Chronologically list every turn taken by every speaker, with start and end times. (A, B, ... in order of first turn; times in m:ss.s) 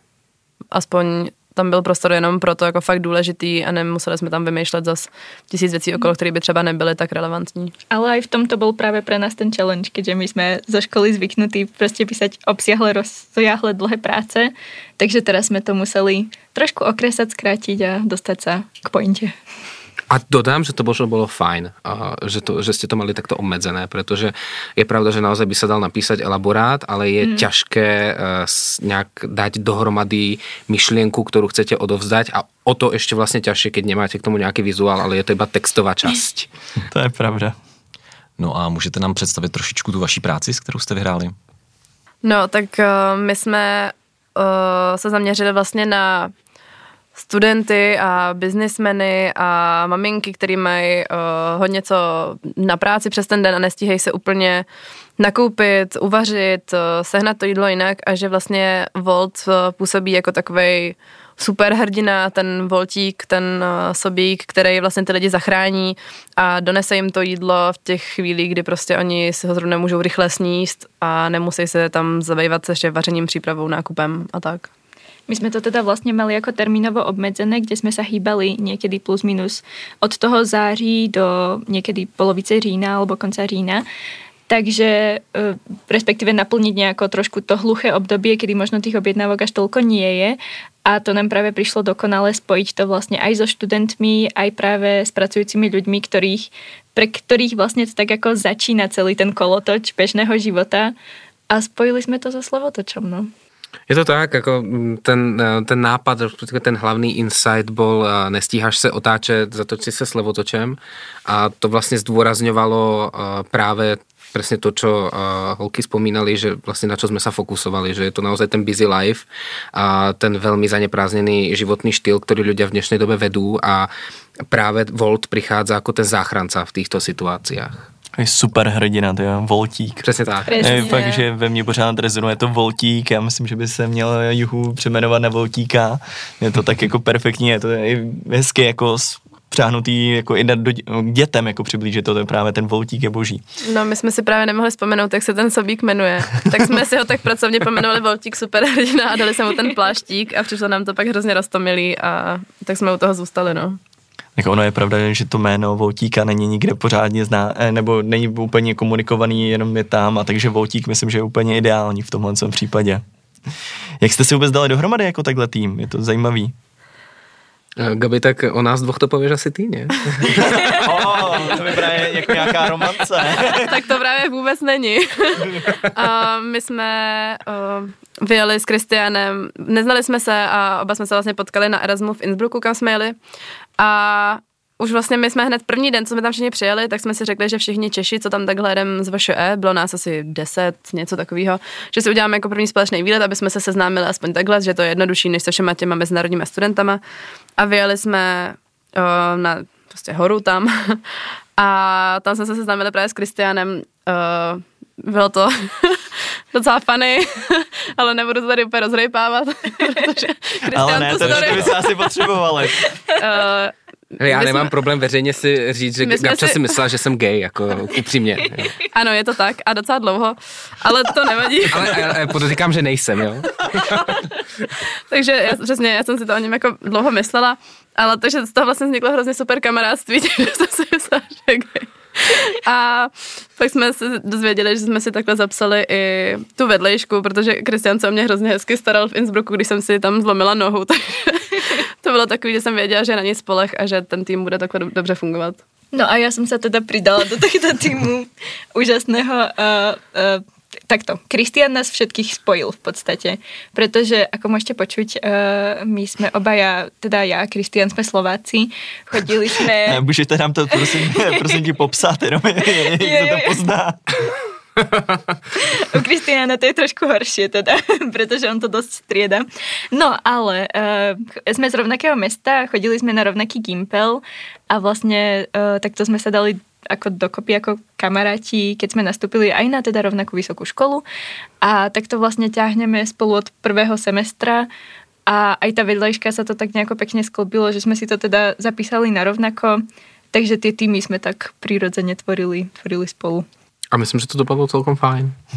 0:00.7-0:07.7 A
0:07.9-0:19.3 B
0:20.1-0:36.5 C
0:27.2-0:27.4 B
0:36.9-0:37.5 D
0:38.4-0:41.3 E
0:42.2-0:46.3 A
0:47.2-0:54.6 A
0:55.2-1:14.7 A
1:15.3-1:23.8 B
1:24.5-1:40.9 B
1:41.5-1:43.3 B
1:43.9-2:03.9 C
2:04.5-2:07.9 C
2:08.2-2:10.0 D
2:10.0-2:10.8 C
2:10.5-2:11.2 B
2:10.6-2:23.4 D
2:23.6-2:33.8 A
2:34.4-2:43.0 D
2:44.0-2:46.5 D
2:47.8-2:50.9 C
2:50.7-2:53.8 D
2:53.5-3:03.2 A
3:03.8-3:17.0 A
3:17.6-3:31.8 A
3:30.7-3:32.9 D
3:31.1-3:31.8 E
3:33.1-3:33.7 A
3:34.2-3:38.8 C
3:34.2-3:34.7 A
3:36.0-3:36.8 A
3:38.8-3:42.1 A
3:41.7-3:44.1 C
3:45.1-4:05.6 A
4:05.9-4:20.0 B
4:19.8-4:24.0 D
4:22.8-4:23.6 B
4:25.7-4:41.0 B
4:41.6-4:44.7 B
4:45.3-4:53.4 B
4:53.9-4:55.3 C